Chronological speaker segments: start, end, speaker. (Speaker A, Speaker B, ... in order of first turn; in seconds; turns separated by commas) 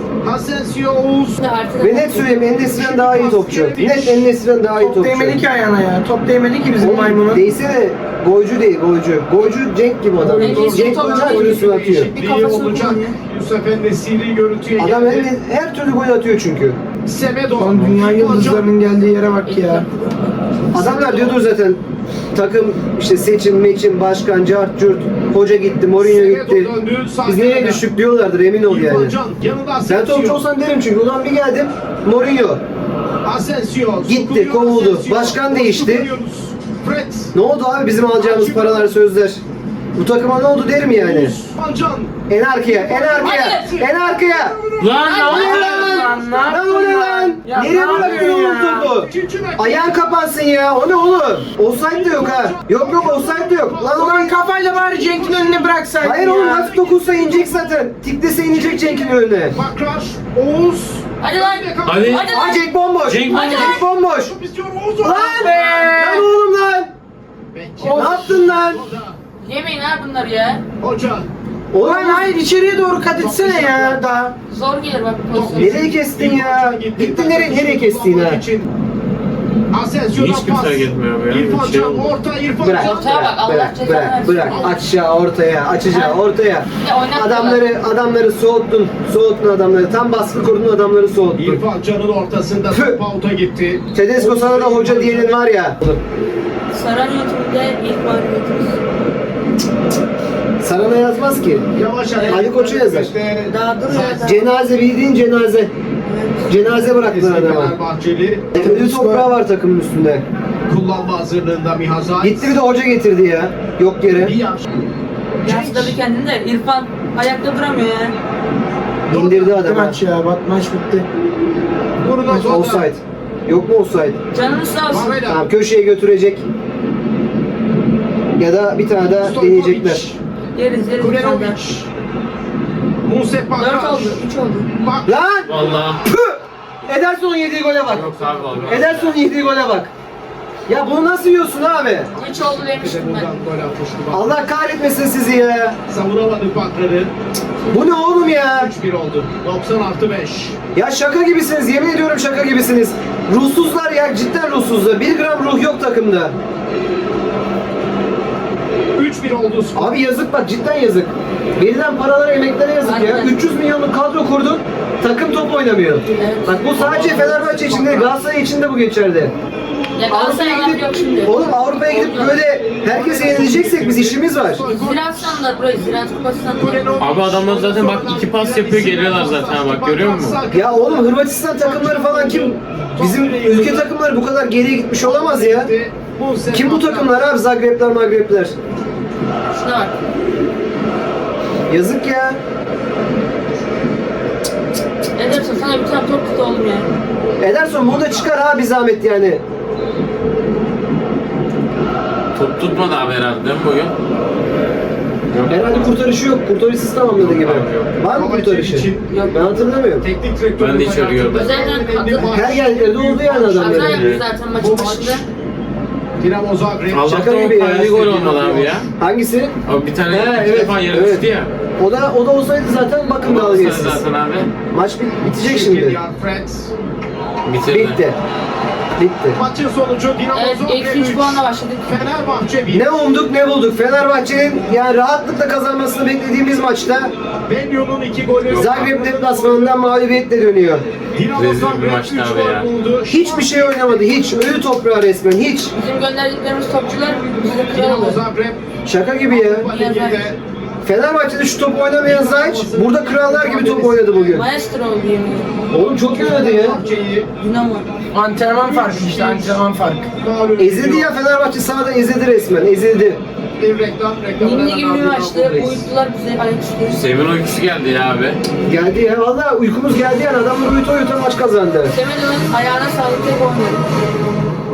Speaker A: 0.2-1.4, Speaker B: 1.4-2.5, Speaker C: 1.8-5.4, Speaker A: 2.5-4.3, Speaker D: 4.7-7.5, Speaker C: 6.8-12.1, Speaker B: 10.2-13.2, Speaker A: 10.4-15.3, Speaker C: 14.8-16.8, Speaker A: 17.0-18.7, Speaker D: 17.6-19.9, Speaker B: 19.4-20.4, Speaker C: 20.7-21.8, Speaker A: 20.7-21.4, Speaker C: 22.3-26.7, Speaker A: 26.0-27.8, Speaker C: 27.2-29.1, Speaker A: 28.6-30.4, Speaker C: 29.9-32.6, Speaker A: 33.2-37.3, Speaker C: 34.0-36.1, Speaker C: 37.3-39.4, Speaker A: 38.1-38.9, Speaker C: 39.9-41.4, Speaker A: 40.9-46.0, Speaker C: 42.3-44.6, Speaker B: 43.2-43.8, Speaker E: 44.8-45.9, Speaker B: 45.0-46.5, Speaker D: 45.1-48.9, Speaker C: 45.2-54.2, Speaker B: 47.5-47.8, Speaker A: 47.9-48.3, Speaker A: 48.8-50.0, Speaker A: 51.8-57.9, Speaker D: 53.8-56.7, Speaker C: 56.0-59.6, Speaker A: 58.4-62.6, Speaker B: 61.2-62.6, Speaker E: 61.8-62.2, Speaker C: 62.2-64.3, Speaker E: 63.0-63.6, Speaker B: 63.2-63.8, Speaker A: 63.5-66.0, Speaker C: 65.0-66.9, Speaker D: 65.0-66.3, Speaker A: 67.5-69.2, Speaker D: 67.8-68.3, Speaker C: 67.9-68.9, Speaker B: 69.4-70.6, Speaker A: 70.8-71.3, Speaker C: 71.7-72.3, Speaker D: 71.8-74.3, Speaker A: 73.0-74.0, Speaker B: 74.5-75.8, Speaker A: 75.3-78.7, Speaker C: 75.5-78.4, Speaker A: 79.7-83.1, Speaker E: 80.1-82.1, Speaker C: 82.6-91.6, Speaker B: 82.8-84.8, Speaker A: 84.4-84.8, Speaker B: 85.8-86.2, Speaker B: 86.8-87.7, Speaker A: 91.3-95.4, Speaker C: 92.7-93.0, Speaker C: 93.9-96.0, Speaker B: 96.7-98.8, Speaker C: 100.6-101.6, Speaker A: 101.7-104.4, Speaker B: 102.2-102.4, Speaker C: 102.2-103.1, Speaker B: 103.4-104.4, Speaker C: 104.2-105.7, Speaker B: 106.0-107.0, Speaker C: 106.5-107.8, Speaker A: 106.9-108.5, Speaker D: 108.5-109.3, Speaker C: 108.5-110.2, Speaker A: 110.7-112.5, Speaker C: 112.2-114.3, Speaker A: 114.1-114.7, Speaker B: 115.4-118.1, Speaker A: 115.5-116.0, Speaker A: 119.1-119.6, Speaker C: 119.1-120.0, Speaker D: 119.5-121.0, Speaker A: 122.0-122.9, Speaker D: 122.2-122.5, Speaker C: 122.4-124.2, Speaker B: 124.3-125.2, Speaker A: 124.9-125.4, Speaker C: 125.2-126.4, Speaker C: 128.4-130.1, Speaker A: 129.2-130.2, Speaker B: 130.5-131.6, Speaker A: 131.0-131.9, Speaker A: 133.0-134.2, Speaker B: 133.6-134.7, Speaker A: 134.8-135.8, Speaker C: 135.1-135.5, Speaker E: 135.5-136.0, Speaker C: 136.1-138.1, Speaker E: 137.9-139.2, Speaker A: 138.3-138.8, Speaker C: 138.7-139.9, Speaker C: 140.7-142.1, Speaker B: 142.1-143.3, Speaker A: 142.2-144.4, Speaker C: 144.1-145.8, Speaker A: 145.9-147.1, Speaker B: 147.6-148.0, Speaker C: 147.7-148.7, Speaker A: 148.2-150.6, Speaker C: 150.7-156.3, Speaker A: 158.9-160.0, Speaker C: 159.7-169.3, Speaker B: 162.8-163.4, Speaker B: 166.1-167.9, Speaker A: 166.7-168.1, Speaker B: 169.9-172.6, Speaker C: 170.1-174.6, Speaker A: 172.7-175.5, Speaker B: 174.6-177.0, Speaker A: 176.5-183.9, Speaker E: 177.0-180.4, Speaker C: 180.5-185.7, Speaker A: 185.0-187.3, Speaker C: 186.5-188.5, Speaker B: 189.5-189.9, Speaker C: 191.7-192.4, Speaker B: 195.2-196.9, Speaker C: 197.4-199.4, Speaker A: 197.9-198.2, Speaker E: 202.3-203.9, Speaker E: 205.3-206.0, Speaker C: 205.5-210.1, Speaker E: 207.1-207.9, Speaker A: 208.1-209.1, Speaker B: 209.1-209.5, Speaker A: 209.9-215.2, Speaker E: 210.6-211.6, Speaker B: 211.3-212.6, Speaker C: 212.3-214.1, Speaker B: 213.3-215.2, Speaker E: 214.0-214.2, Speaker A: 216.2-217.2, Speaker E: 216.9-218.9, Speaker C: 217.1-218.2, Speaker A: 217.8-218.9, Speaker C: 219.0-219.5, Speaker E: 219.6-221.5, Speaker C: 220.1-224.0, Speaker E: 223.2-224.5, Speaker C: 224.7-226.0, Speaker A: 225.3-226.7, Speaker E: 227.4-228.0, Speaker C: 227.7-228.2, Speaker C: 229.0-229.4, Speaker A: 229.3-232.9, Speaker B: 230.3-232.1, Speaker C: 232.7-237.1, Speaker A: 237.5-239.8, Speaker E: 238.5-238.9, Speaker C: 238.5-240.8, Speaker A: 241.1-244.3, Speaker E: 241.3-242.7, Speaker C: 243.1-245.7, Speaker B: 245.7-248.2, Speaker A: 247.6-248.6, Speaker C: 248.8-249.7, Speaker A: 249.3-250.4, Speaker B: 249.7-250.3, Speaker C: 250.8-254.4, Speaker A: 252.0-254.2, Speaker B: 254.2-257.9, Speaker C: 255.7-256.8, Speaker A: 256.1-257.3, Speaker D: 258.1-260.1, Speaker A: 258.5-259.6, Speaker A: 260.1-261.1, Speaker C: 260.6-263.2, Speaker A: 263.6-265.9, Speaker B: 264.4-267.0, Speaker E: 266.9-268.4, Speaker C: 268.7-271.9, Speaker B: 271.9-273.8